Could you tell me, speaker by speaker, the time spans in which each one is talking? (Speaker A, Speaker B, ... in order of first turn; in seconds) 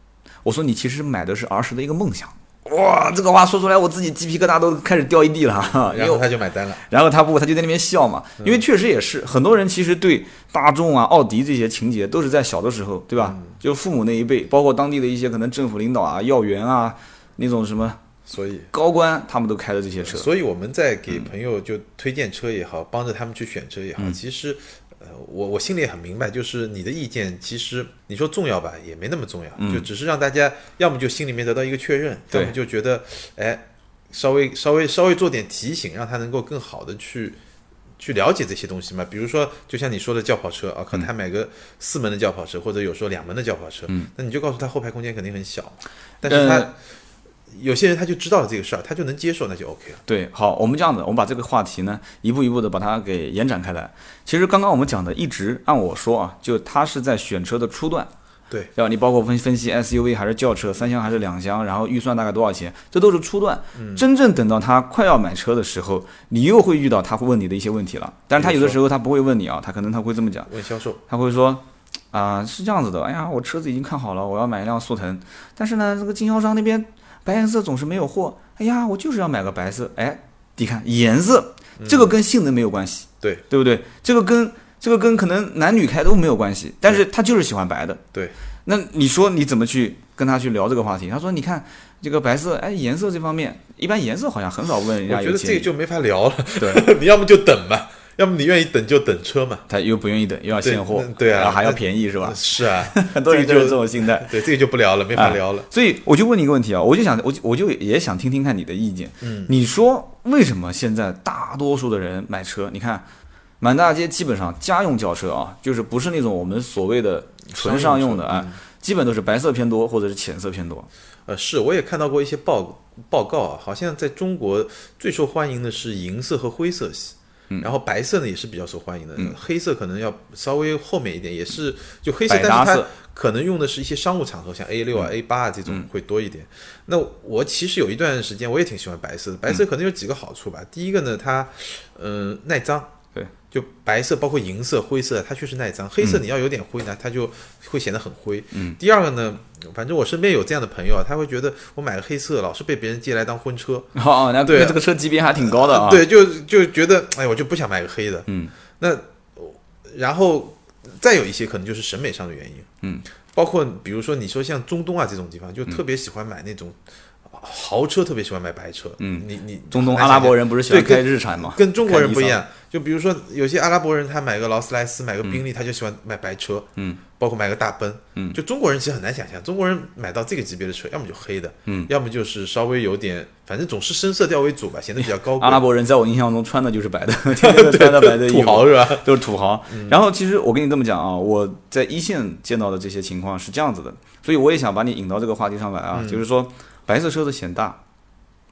Speaker A: 0.4-6.2, 6.8-18.0, 18.7-20.3, 29.6-29.9, 46.2-46.7, 50.1-58.1, 58.7-70.5, 71.1-88.0, 88.6-95.7, 96.6-96.9, 99.7-104.3, 105.1-113.0, 113.6-120.9, 132.3-132.9, 148.5-148.8, 153.9-156.1, 158.3-158.5, 169.0-172.4, 185.4-197.8
Speaker B: 5.8-6.8, 13.2-13.5, 18.3-18.7, 20.0-37.4, 38.0-46.7, 47.5-50.0, 63.7-64.0, 68.4-68.8, 70.5-71.0, 81.8-82.1, 95.0-99.7, 100.6-105.7, 109.2-109.5, 117.5-118.6, 121.3-142.9, 143.5-153.9, 154.4-154.8, 155.4-158.3, 158.8-162.7, 163.3-185.6, 187.4-189.1, 189.7-190.0, 195.9-196.2